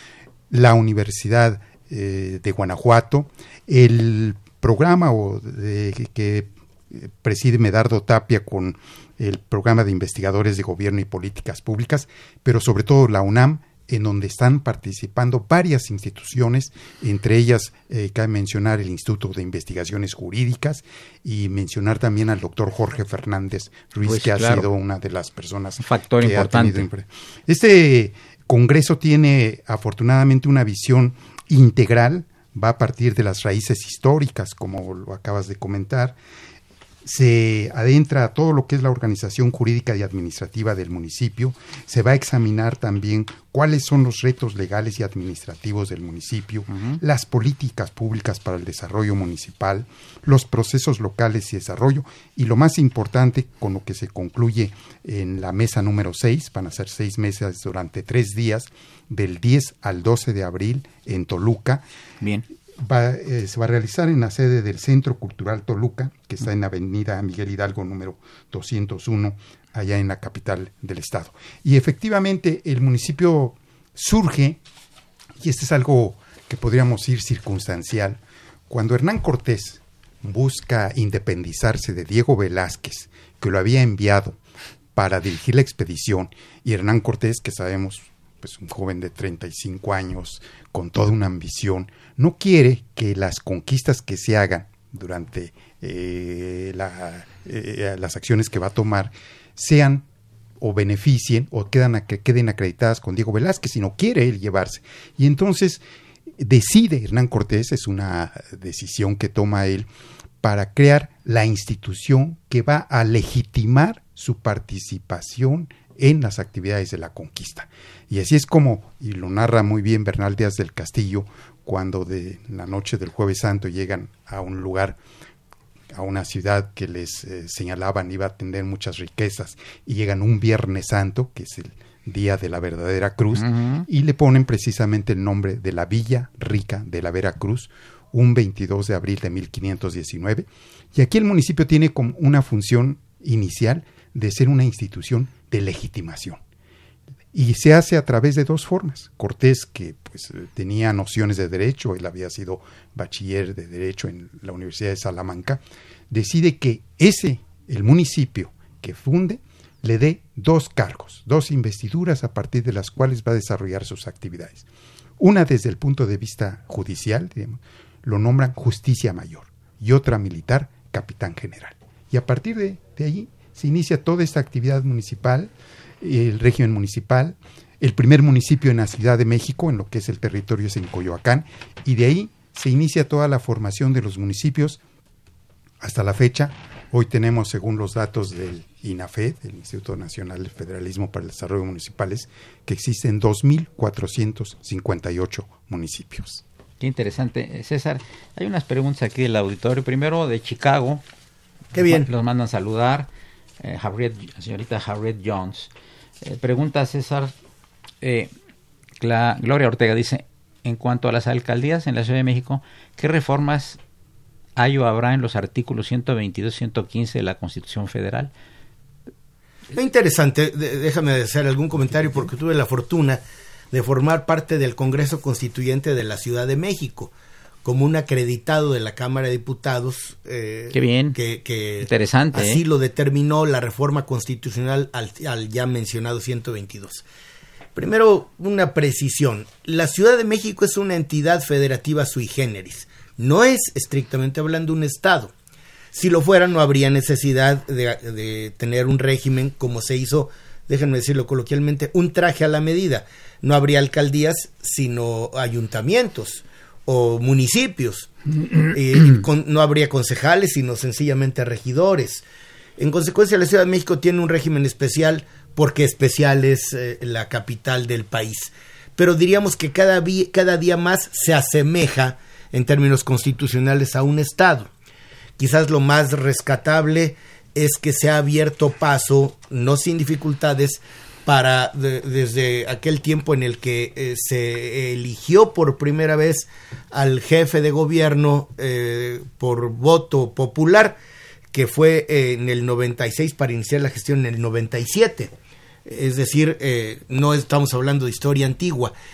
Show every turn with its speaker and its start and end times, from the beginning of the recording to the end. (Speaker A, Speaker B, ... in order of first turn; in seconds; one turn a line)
Speaker A: 0.5-36.2
Speaker B: 24.1-24.7
Speaker B: 25.8-26.9
Speaker A: 37.0-61.9
Speaker B: 46.7-47.0
Speaker A: 62.8-74.6
Speaker A: 75.4-84.4
Speaker A: 85.0-100.1
Speaker A: 100.6-105.8
Speaker A: 106.4-109.9
Speaker A: 110.4-125.0
Speaker A: 125.9-146.4
Speaker B: 133.4-133.9
Speaker A: 147.3-164.7
Speaker A: 165.2-184.8
Speaker A: 185.8-196.4
Speaker B: 196.8-201.0
Speaker C: 201.7-202.1
Speaker B: 201.8-203.1
Speaker B: 203.6-205.7
Speaker B: 206.2-207.3
Speaker B: 208.0-208.3
Speaker B: 209.0-213.8
Speaker B: 214.6-218.3
Speaker C: 219.7-227.1
Speaker C: 227.7-237.1
Speaker B: 230.7-231.2
Speaker B: 231.8-232.6
Speaker C: 237.8-245.3
Speaker C: 245.9-258.1
Speaker C: 258.7-262.2
Speaker C: 262.8-274.7
Speaker C: 275.4-291.0
Speaker C: 291.5-295.3
Speaker C: 295.9-298.9